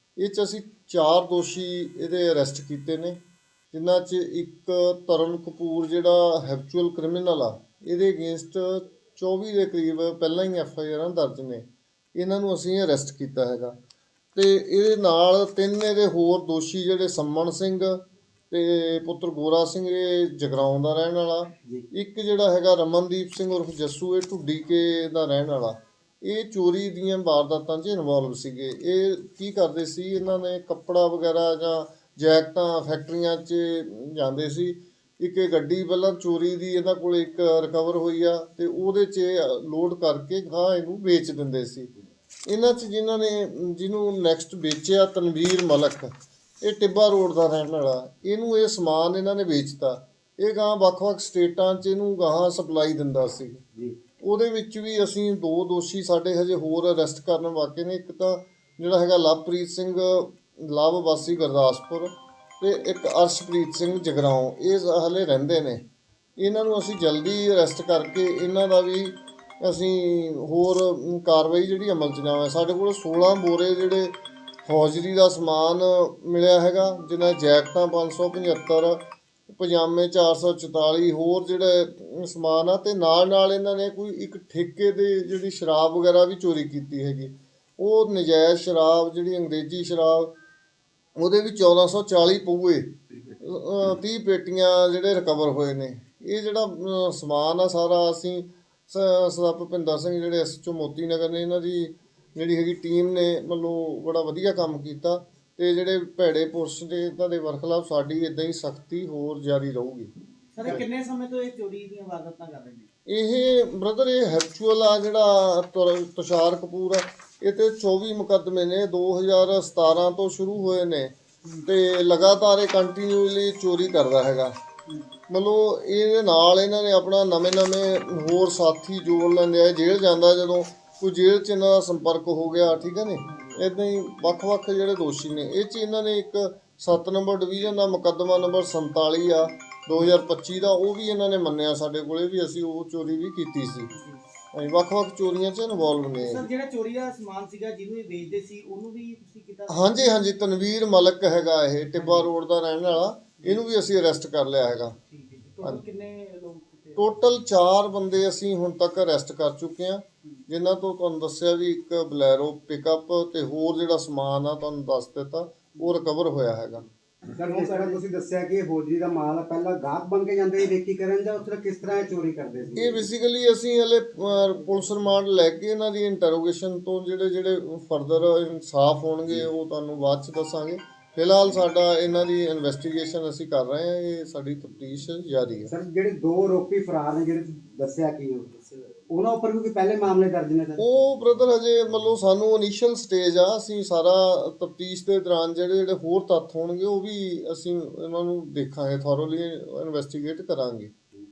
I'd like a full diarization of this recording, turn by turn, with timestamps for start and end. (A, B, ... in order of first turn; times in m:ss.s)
0:00.2-0:03.2 A
0:03.7-0:13.8 A
0:14.4-0:41.9 A
0:42.5-0:53.6 A
0:54.2-1:05.8 A
1:06.4-1:30.4 A
1:31.2-1:50.1 A
1:50.6-1:52.9 B
1:53.1-2:01.1 A
2:01.6-2:04.6 A
2:04.9-2:05.1 B
2:05.3-2:23.9 A
2:13.2-2:13.6 B
2:23.9-2:24.2 B
2:24.5-2:26.5 A
2:26.2-2:30.1 B
2:29.7-2:35.0 A
2:32.0-2:32.3 B
2:35.1-2:37.1 B
2:37.0-2:46.9 A
2:47.2-2:48.0 B
2:47.4-2:53.1 C
2:52.8-3:05.7 A
3:05.7-3:10.8 C
3:10.8-3:20.9 A